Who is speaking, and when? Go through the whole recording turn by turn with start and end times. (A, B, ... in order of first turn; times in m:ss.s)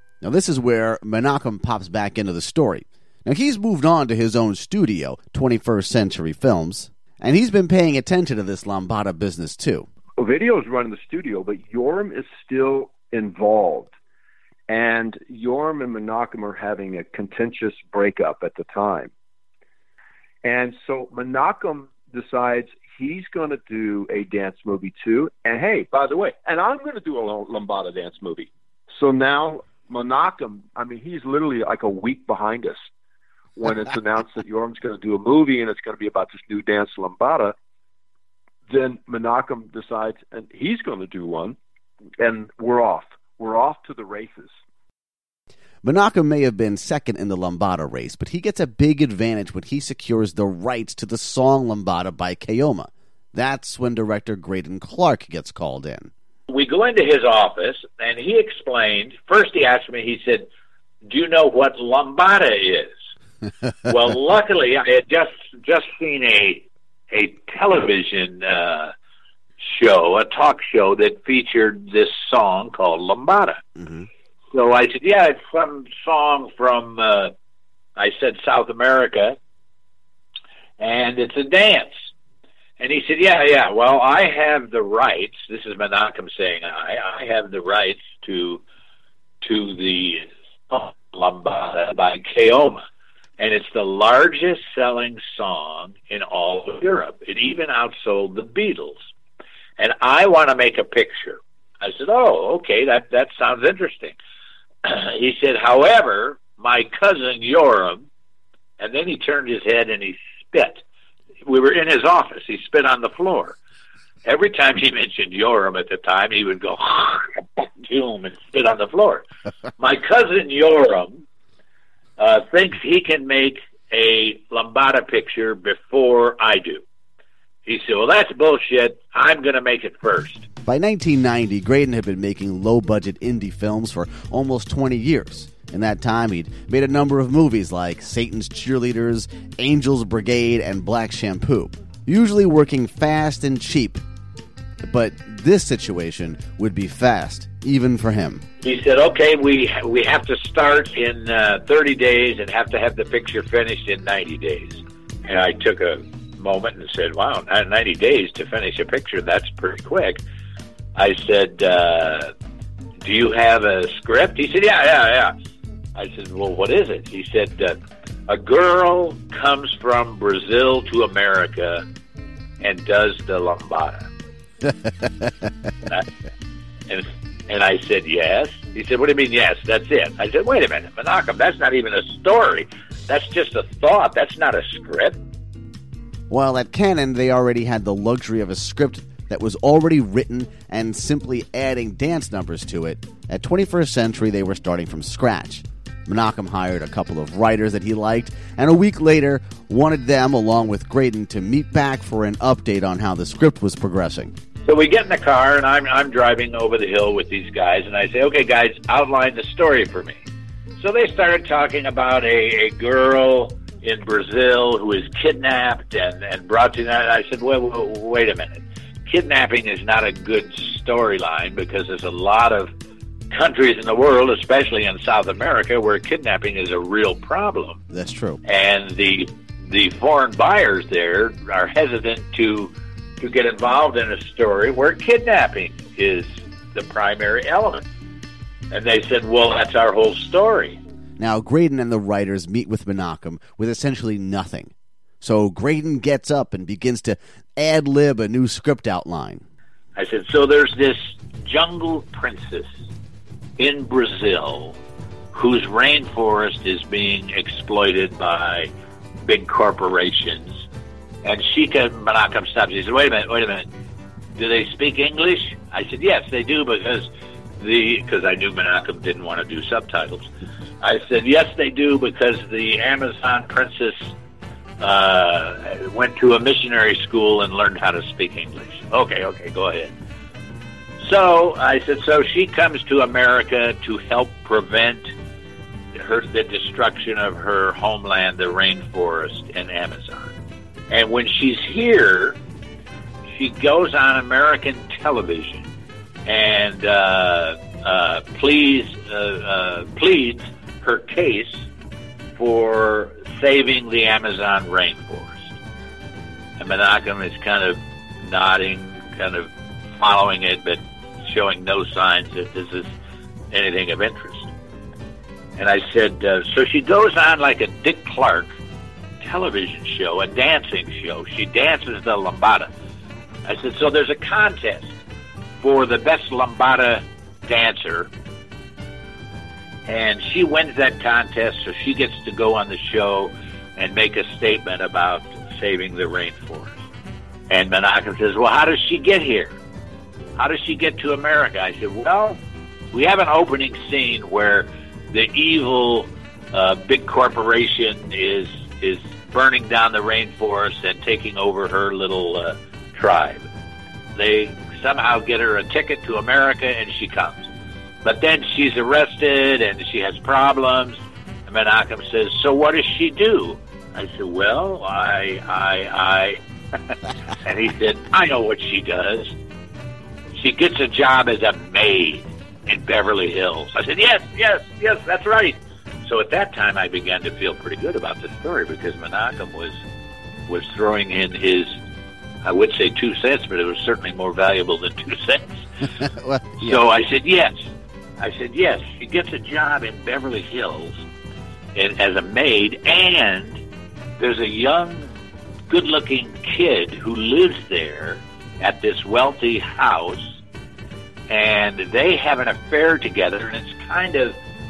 0:00.2-0:09.9 A
0:10.2-0:13.9 B
0:14.7-0:19.1 B
0:20.4-0:32.8 B
0:33.6-0:37.5 B
0:38.7-0:41.6 B
0:42.2-0:44.5 B
0:45.8-0:56.1 A
0:56.5-1:00.5 C
1:01.0-1:03.0 C
1:03.8-1:08.9 C
1:09.6-1:13.6 C
1:13.8-1:14.0 A
1:14.5-1:17.3 C
1:18.0-1:19.4 C
1:20.8-1:22.0 C
1:22.8-1:28.6 C
1:29.4-1:32.8 C
1:33.4-1:39.0 C
1:39.8-1:44.2 C
1:44.8-1:48.0 C
1:48.8-1:50.8 C
1:51.4-1:53.6 C
1:54.2-1:59.3 C
1:59.8-2:01.2 C
2:02.2-2:06.8 C
2:07.6-2:10.4 C
2:10.6-2:24.0 A
2:24.8-2:28.4 A
2:28.6-2:40.2 C
2:40.9-2:42.3 C
2:43.0-2:45.3 C
2:45.9-2:47.8 C
2:48.3-2:51.8 C
2:52.6-2:54.1 C
2:56.9-3:05.2 C
3:06.3-3:24.3 A
3:24.6-3:30.2 C
3:30.8-3:42.7 C
3:43.3-3:47.8 C
3:47.9-3:48.4 A
3:48.4-3:57.8 C
3:58.7-4:00.8 C
4:01.2-4:09.4 A
4:10.0-4:12.7 C
4:13.6-4:14.8 C
4:15.3-4:18.7 C
4:19.2-4:20.6 C
4:21.2-4:23.7 C
4:24.4-4:27.1 C
4:27.6-4:30.3 C
4:30.8-4:34.1 C
4:34.8-4:39.9 C
4:41.0-4:45.1 C
4:45.9-4:50.3 C
4:50.9-4:52.4 C
4:53.3-4:55.7 C
4:56.2-5:01.6 C
5:02.4-5:05.5 C
5:06.6-5:12.9 C
5:13.5-5:14.5 C
5:15.6-5:18.5 C
5:19.2-5:22.7 C
5:23.4-5:24.9 C
5:25.6-5:28.1 C
5:29.9-5:36.8 C
5:37.5-5:39.6 C
5:40.4-5:42.4 C
5:42.9-5:53.5 C
5:54.1-5:57.5 C
5:58.0-6:06.4 C
6:07.4-6:09.4 C
6:10.3-6:19.8 C
6:20.5-6:21.8 C
6:22.4-6:25.6 C
6:26.0-6:26.8 A
6:26.6-6:27.6 C
6:28.2-6:31.0 C
6:31.7-6:33.6 C
6:34.2-6:35.1 C
6:35.7-6:40.4 C
6:41.3-6:44.4 C